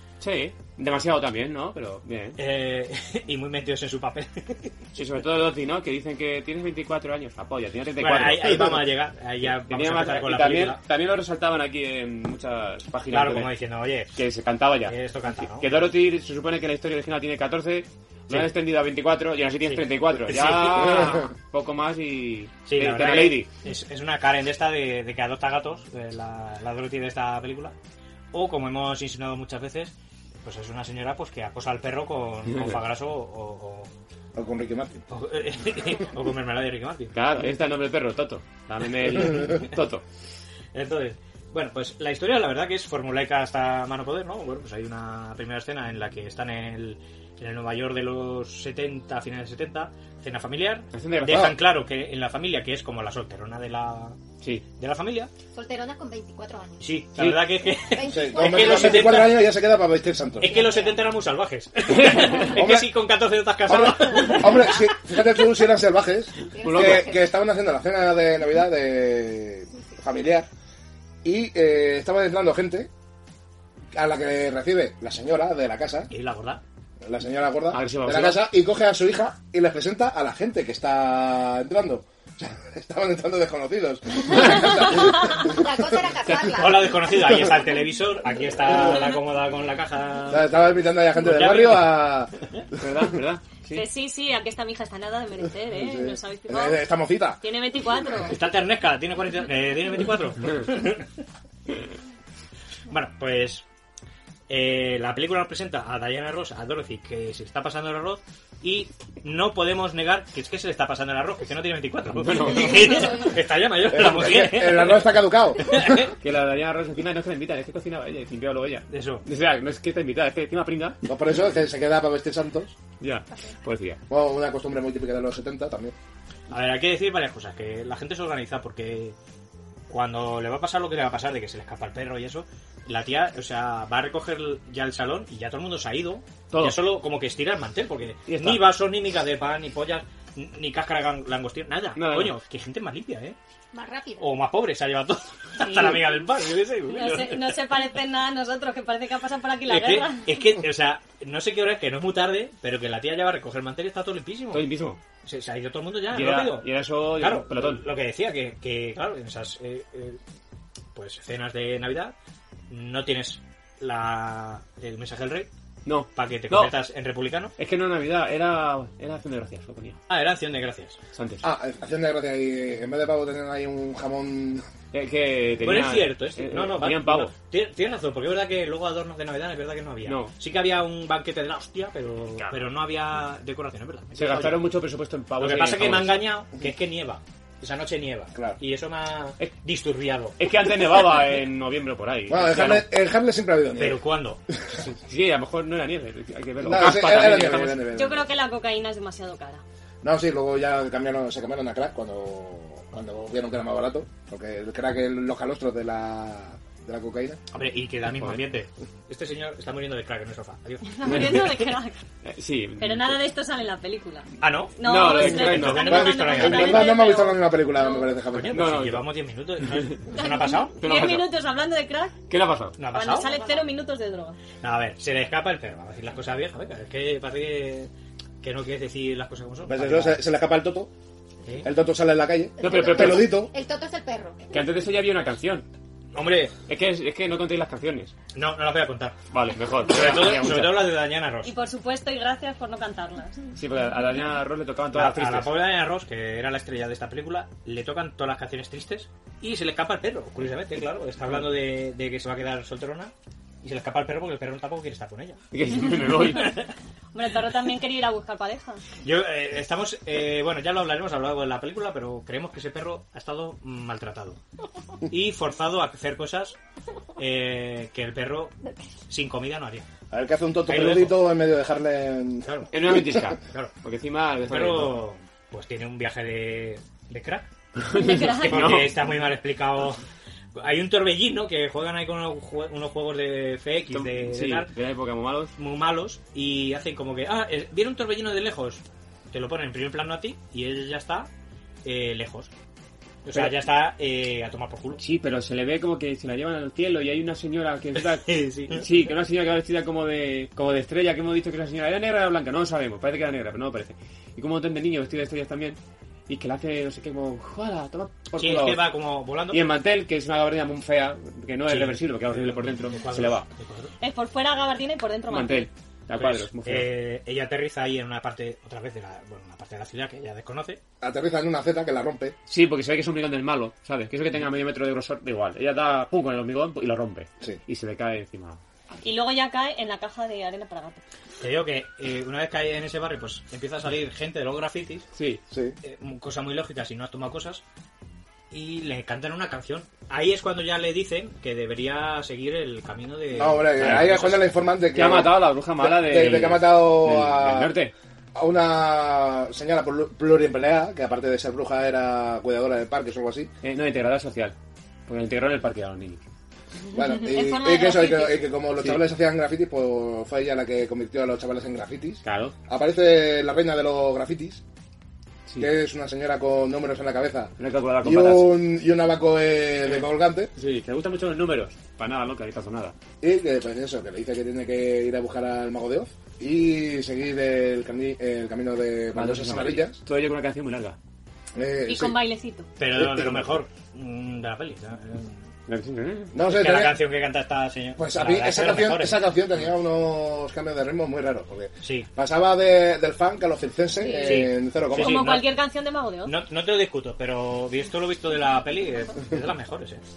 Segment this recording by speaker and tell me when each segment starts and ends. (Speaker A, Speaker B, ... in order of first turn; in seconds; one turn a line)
Speaker A: 0.2-2.4
Speaker B: 2.4-4.7
Speaker A: 4.9-8.9
Speaker B: 8.0-10.8
Speaker A: 9.4-13.5
Speaker B: 13.1-14.2
Speaker A: 14.2-23.5
Speaker B: 14.8-15.7
Speaker B: 19.6-21.3
Speaker B: 22.6-27.7
Speaker B: 28.3-33.9
Speaker C: 34.3-35.0
Speaker B: 35.1-37.1
Speaker A: 37.1-40.0
Speaker B: 40.7-54.2
Speaker A: 50.9-51.6
Speaker B: 54.8-55.3
Speaker D: 55.5-56.9
Speaker B: 56.8-59.5
Speaker A: 57.2-57.4
Speaker D: 57.8-59.3
Speaker C: 58.1-60.5
Speaker B: 60.4-64.7
Speaker D: 60.4-61.1
Speaker A: 62.0-62.2
Speaker C: 62.5-62.9
Speaker C: 63.7-70.5
Speaker D: 66.5-67.3
Speaker A: 66.6-67.1
Speaker C: 71.2-72.9
Speaker C: 73.9-76.1
Speaker B: 76.1-76.6
Speaker C: 77.0-85.5
Speaker A: 77.7-78.4
Speaker D: 85.4-87.1
Speaker B: 86.4-90.5
Speaker C: 90.3-92.3
Speaker B: 91.2-92.0
Speaker A: 92.8-93.9
Speaker E: 93.7-96.8
Speaker C: 95.7-97.4
Speaker E: 97.4-98.3
Speaker B: 98.3-101.0
Speaker B: 102.9-103.6
Speaker B: 104.5-116.1
Speaker A: 112.1-113.2
Speaker C: 113.9-116.0
Speaker A: 116.2-121.0
Speaker B: 118.9-119.2
Speaker C: 121.1-122.8
Speaker A: 123.0-124.0
Speaker C: 124.1-125.9
Speaker B: 126.5-129.2
Speaker B: 129.9-143.3
Speaker A: 136.5-136.8
Speaker A: 138.3-138.7
Speaker A: 141.9-142.3
Speaker D: 143.7-144.3
Speaker B: 144.2-147.6
Speaker E: 146.9-150.4
Speaker B: 149.7-154.7
Speaker A: 154.5-155.0
Speaker B: 155.2-156.7
Speaker A: 156.1-157.8
Speaker B: 157.2-160.2
Speaker B: 160.9-162.1
Speaker B: 162.7-165.5
Speaker A: 165.8-166.7
Speaker B: 166.1-167.5
Speaker A: 167.6-170.0
Speaker B: 170.1-171.0
Speaker A: 171.1-171.4
Speaker C: 171.4-174.6
Speaker A: 174.9-177.3
Speaker B: 175.6-184.6
Speaker A: 180.0-180.3
Speaker A: 184.1-186.2
Speaker B: 185.4-190.4
Speaker A: 190.4-192.8
Speaker C: 192.3-194.0
Speaker B: 193.8-194.4
Speaker A: 194.9-197.8
Speaker C: 196.6-198.3
Speaker E: 197.9-199.6
Speaker C: 200.0-207.4
Speaker B: 207.5-211.5
Speaker E: 210.9-212.0
Speaker A: 211.0-211.6
Speaker A: 212.2-213.2
Speaker E: 212.8-218.1
Speaker B: 214.4-217.1
Speaker A: 214.8-216.1
Speaker C: 215.7-218.7
Speaker B: 218.3-220.7
Speaker A: 218.5-219.1
Speaker E: 220.1-222.3
Speaker A: 220.8-221.3
Speaker A: 222.3-222.8
Speaker B: 222.8-223.4
Speaker E: 222.8-224.4
Speaker B: 224.6-227.9
Speaker B: 228.4-230.2
Speaker C: 229.7-230.9
Speaker C: 231.6-233.5
Speaker D: 232.6-234.7
Speaker A: 232.6-233.4
Speaker A: 234.5-235.7
Speaker B: 236.1-236.5
Speaker A: 236.7-238.1
Speaker B: 238.3-239.2
Speaker A: 239.3-240.9
Speaker B: 239.9-241.5
Speaker E: 241.4-243.4
Speaker A: 243.6-245.6
Speaker B: 244.9-253.1
Speaker B: 253.6-255.4
Speaker A: 255.5-256.5
Speaker B: 256.4-256.7
Speaker E: 257.1-258.8
Speaker B: 259.0-264.4
Speaker B: 265.1-266.6
Speaker B: 267.2-268.6
Speaker B: 269.1-269.9
Speaker C: 270.1-273.2
Speaker B: 270.7-271.2
Speaker B: 272.4-272.7
Speaker A: 272.7-275.0
Speaker B: 273.4-273.7
Speaker B: 274.4-277.5
Speaker A: 277.8-279.0
Speaker E: 277.9-278.6
Speaker B: 278.4-280.0
Speaker B: 280.6-284.7
Speaker A: 283.9-285.5
Speaker B: 285.6-291.3
Speaker B: 291.8-292.5
Speaker B: 293.2-295.0
Speaker A: 295.0-308.8
Speaker B: 297.9-298.9
Speaker B: 308.4-309.6
Speaker A: 309.5-313.5
Speaker B: 311.6-313.9
Speaker E: 314.0-315.7
Speaker A: 315.3-316.9
Speaker B: 316.2-320.8
Speaker C: 321.0-322.4
Speaker A: 322.5-328.6
Speaker E: 329.0-331.0
Speaker B: 331.4-335.1
Speaker A: 335.1-335.4
Speaker C: 335.5-335.8
Speaker B: 335.8-337.6
Speaker B: 338.5-344.4
Speaker C: 343.3-347.8
Speaker A: 343.8-344.2
Speaker A: 344.9-347.9
Speaker C: 348.3-353.5
Speaker A: 353.6-354.5
Speaker A: 355.1-356.2
Speaker C: 356.9-364.6
Speaker E: 356.9-358.6
Speaker A: 358.8-359.0
Speaker A: 362.2-362.5
Speaker C: 365.6-370.5
Speaker A: 367.6-368.6
Speaker A: 370.6-372.9
Speaker C: 373.2-380.0
Speaker A: 379.1-380.9
Speaker C: 381.6-382.2
Speaker E: 381.9-382.7
Speaker B: 382.8-385.4
Speaker C: 382.9-383.6
Speaker A: 385.7-386.3
Speaker C: 386.3-387.0
Speaker B: 386.5-389.2
Speaker C: 388.0-395.4
Speaker B: 391.8-392.1
Speaker E: 394.0-396.4
Speaker B: 394.2-395.4
Speaker B: 396.2-400.0